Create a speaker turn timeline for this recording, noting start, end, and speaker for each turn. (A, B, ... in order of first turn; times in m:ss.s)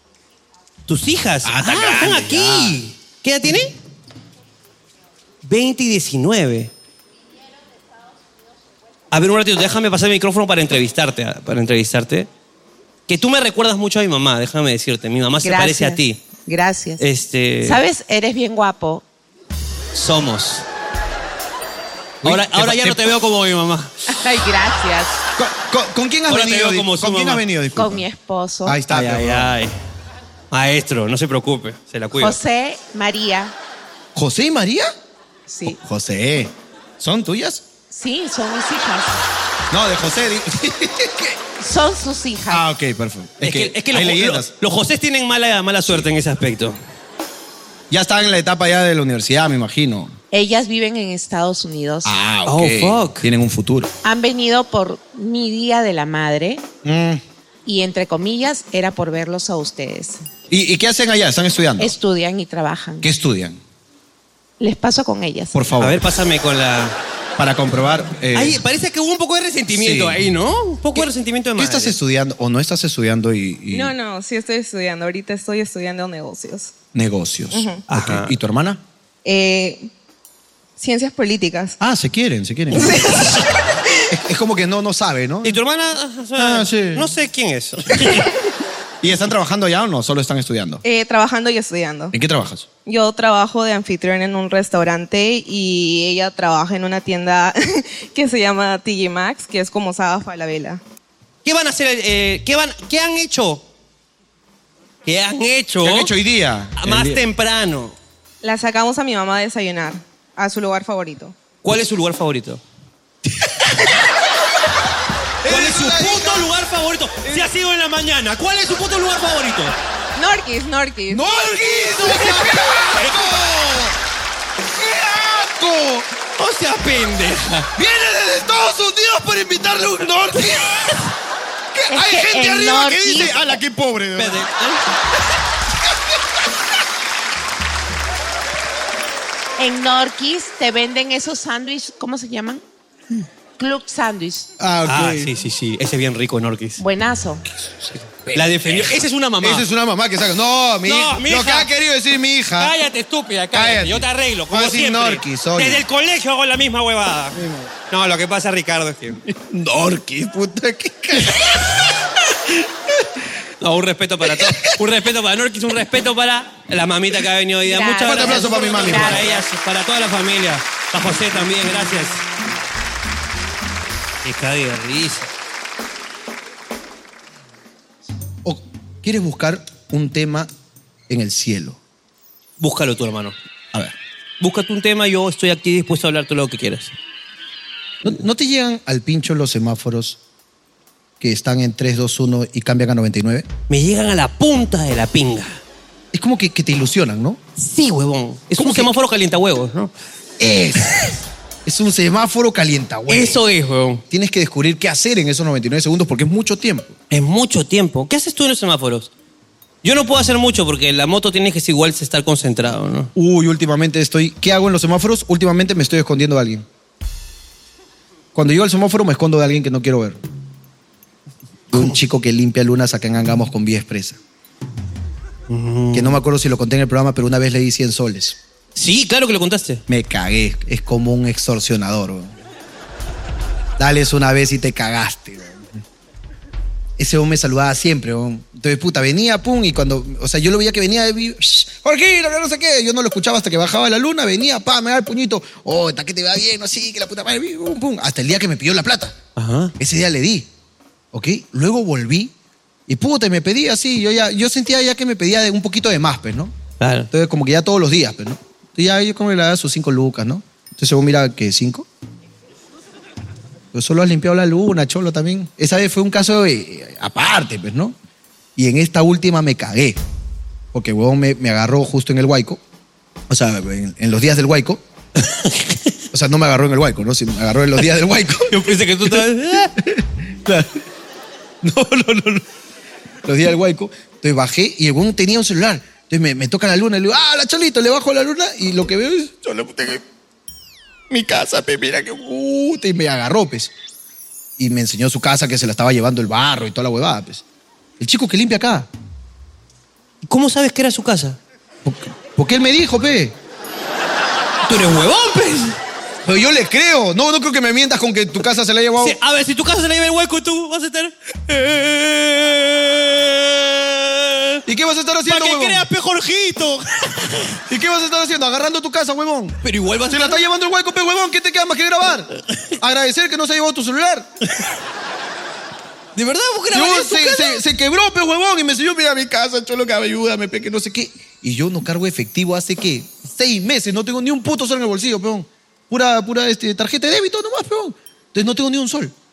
0:00.9-0:03.7 A
0:01.4-0:02.8 B
0:05.4-0:06.7 A
0:09.1-0:12.3 A
0:13.1-0:16.2 A
0:15.4-0:17.0 C
0:17.0-0:17.8 A
0:17.6-0:19.0 C
0:20.0-0:20.6 A
0:22.2-0:23.1 B
0:22.2-0:23.9 A
0:24.1-0:25.2 C
0:25.4-0:28.1 B
0:26.3-0:27.4 A
0:27.8-0:28.8 C
0:28.6-0:29.5 B
0:28.9-0:29.7 A
0:30.5-0:32.4 A
0:32.2-0:33.5 C
0:34.2-0:34.9 B
0:35.5-0:35.8 C
0:35.6-0:37.6 B
0:37.9-0:39.2 C
0:39.7-0:41.4 B
0:41.6-0:42.6 C
0:42.5-0:44.5 B
0:43.4-0:46.8 A
0:47.9-0:50.2 B
0:50.3-0:52.1 C
0:52.0-0:53.9 B
0:52.5-0:53.3 A
0:54.0-0:56.6 C
0:56.8-0:57.2 B
0:57.7-1:00.2 C
1:00.5-1:02.0 B
1:01.8-1:03.1 C
1:03.0-1:03.6 B
1:04.6-1:05.6 C
1:05.5-1:06.0 B
1:05.8-1:07.0 A
1:07.4-1:08.6 B
1:08.3-1:12.0 A
1:09.7-1:10.2 B
1:11.6-1:14.0 B
1:13.7-1:16.7 D
1:16.9-1:18.8 B
1:17.5-1:17.8 D
1:17.9-1:18.4 A
1:19.2-1:19.9 D
1:20.8-1:21.8 D
1:21.8-1:23.1 B
1:22.8-1:23.5 D
1:24.1-1:25.6 B
1:25.4-1:28.3 A
1:26.4-1:27.1 B
1:29.0-1:30.8 B
1:30.8-1:32.1 D
1:32.1-1:32.7 B
1:32.9-1:40.8 D
1:41.4-1:43.6 A
1:45.1-1:46.1 A
1:45.8-1:47.2 B
1:46.8-1:48.0 A
1:48.4-1:51.4 D
1:51.6-1:52.6 A
1:55.4-1:56.5 B
1:55.5-1:59.7 A
2:00.2-2:01.3 D
2:01.1-2:04.0 B
2:01.7-2:03.6 A
2:04.7-2:06.1 B
2:06.4-2:07.7 A
2:07.8-2:10.9 B
2:11.7-2:14.4 B
2:11.9-2:13.6 C
2:14.2-2:14.8 A
2:15.8-2:16.2 B
2:19.6-2:22.6 C
2:23.6-2:24.5 C
2:24.6-2:25.3 B
2:24.9-2:26.8 A
2:26.8-2:27.4 C
2:28.1-2:32.8 B
2:28.3-2:29.7 A
2:30.9-2:31.7 A
2:32.6-2:37.4 A
2:33.5-2:35.8 B
2:37.3-2:37.7 B
2:37.9-2:39.2 A
2:39.3-2:42.0 B
2:42.5-2:43.0 B
2:43.6-2:52.2 A
2:44.2-2:44.8 B
2:47.6-2:49.4 C
2:48.0-2:49.3 B
2:54.2-2:55.3 A
2:58.4-3:00.5 B
3:01.1-3:01.8 B
3:02.6-3:03.4 A
3:04.4-3:06.9 A
3:08.0-3:10.2 B
3:11.2-3:13.5 B
3:13.7-3:15.6 A
3:16.1-3:17.4 B
3:17.6-3:19.9 A
3:18.6-3:18.9 B
3:20.4-3:21.1 B
3:21.7-3:23.4 B
3:23.1-3:24.0 A
3:24.1-3:27.0 B
3:27.1-3:29.1 A
3:29.8-3:33.1 A
3:33.2-3:36.6 B
3:38.3-3:40.2 B
3:41.7-3:44.2 B
3:45.5-3:46.2 A
3:45.9-3:48.4 B
3:48.8-3:49.8 A
3:49.9-3:52.4 B
3:53.8-3:55.8 B
3:57.0-4:09.2 B
4:09.4-4:09.7 A
4:09.8-4:10.5 B
4:11.1-4:12.3 B
4:12.9-4:16.6 B
4:16.8-4:17.1 A
4:17.1-4:21.9 B
4:23.7-4:28.0 B
4:28.6-4:30.0 B
4:30.7-4:32.6 B
4:33.3-4:34.8 B
4:35.3-4:35.9 A
4:36.1-4:39.2 B
4:38.5-4:39.7 A
4:39.8-4:40.8 B
4:41.6-4:42.4 B
4:43.2-4:50.0 B
4:51.1-4:53.7 B
4:54.6-4:57.4 B
4:58.0-4:58.9 B
5:00.2-5:01.4 A
5:01.8-5:03.4 B
5:04.7-5:05.8 A
5:06.2-5:09.2 B
5:09.0-5:14.6 A
5:14.7-5:15.9 B
5:15.3-5:17.6 A
5:17.7-5:22.3 B
5:19.6-5:20.4 A
5:22.8-5:24.3 B
5:26.2-5:27.6 A
5:26.7-5:39.1 B